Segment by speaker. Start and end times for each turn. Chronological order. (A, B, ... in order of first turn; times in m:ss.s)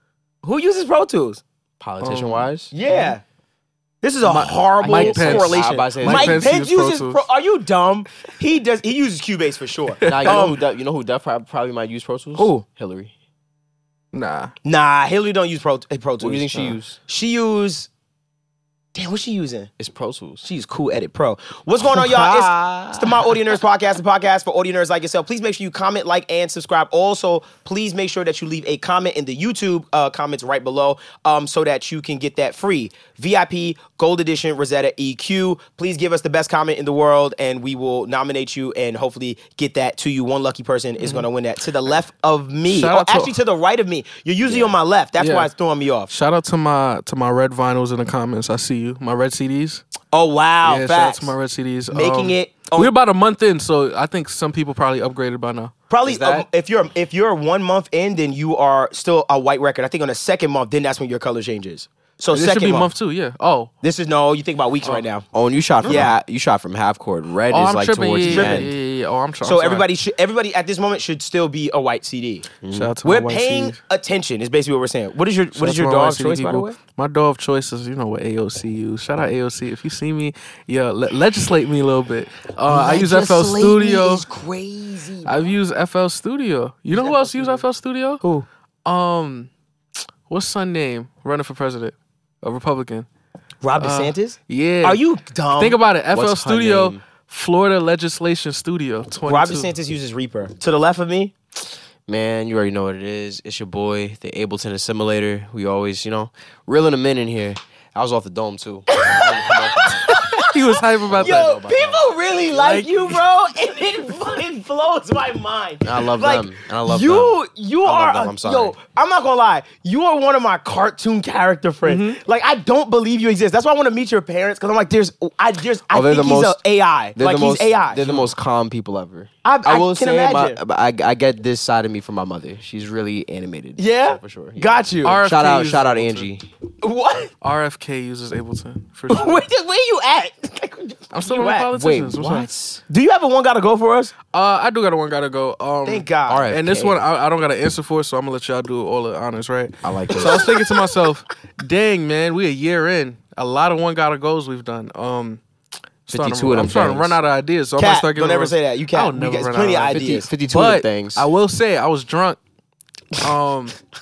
0:00.4-0:01.4 A
0:01.8-0:02.7 B
0:02.0-0:03.1 C
0:02.7-0:03.2 A
0:04.0-0:10.6 A
0:04.3-0:06.5 B
0:04.3-0:07.2 C
0:10.0-0:10.5 C
0:10.0-0:13.1 B
0:12.4-0:12.6 A
0:14.1-0:14.5 C
0:14.6-0:17.9 A
0:16.2-0:17.0 B
0:18.9-0:19.7 A
0:19.8-0:20.4 B
0:20.4-0:46.1 A
0:21.9-0:23.3 B
0:41.0-0:41.2 C
0:42.7-0:43.4 C
0:44.5-0:44.7 B
0:45.2-0:45.5 C
0:46.1-0:49.8 C
0:50.1-0:51.3 A
0:50.6-0:55.7 C
0:51.9-0:52.9 A
0:55.9-1:02.9 A
0:56.1-0:56.5 B
1:02.3-1:03.7 C
1:03.8-1:05.2 A
1:05.3-1:08.7 B
1:05.8-1:06.2 A
1:07.5-1:09.8 C
1:08.2-1:08.7 A
1:09.4-1:12.5 A
1:12.6-1:12.9 B
1:12.7-1:13.8 C
1:13.0-1:16.8 A
1:15.6-1:24.2 C
1:22.7-1:25.5 A
1:25.2-1:28.2 C
1:26.9-1:27.6 A
1:28.2-1:28.5 A
1:28.8-1:29.5 C
1:30.3-1:33.1 C
1:33.6-1:35.8 A
1:33.8-1:35.0 C
1:35.6-1:39.7 C
1:36.1-1:37.0 B
1:39.2-1:41.3 A
1:42.1-1:50.1 B
1:48.9-2:08.1 A
1:50.4-1:51.5 C
1:51.1-1:52.1 B
1:52.5-1:53.2 C
1:55.8-1:58.8 B
2:01.8-2:02.2 C
2:05.9-2:06.6 B
2:07.2-2:16.4 B
2:08.0-2:08.3 C
2:09.4-2:10.6 A
2:13.8-2:15.2 A
2:15.0-2:16.3 C
2:16.8-2:17.3 A
2:17.4-2:19.4 C
2:19.1-2:21.7 A
2:21.1-2:22.5 C
2:21.7-2:22.8 B
2:22.9-2:24.1 A
2:24.3-2:35.4 C
2:25.8-2:26.5 A
2:26.3-2:27.0 B
2:29.8-2:30.5 B
2:30.1-2:30.8 A
2:36.1-2:42.4 C
2:36.1-2:37.2 B
2:37.8-2:40.3 A
2:39.9-2:41.3 B
2:43.2-2:43.8 C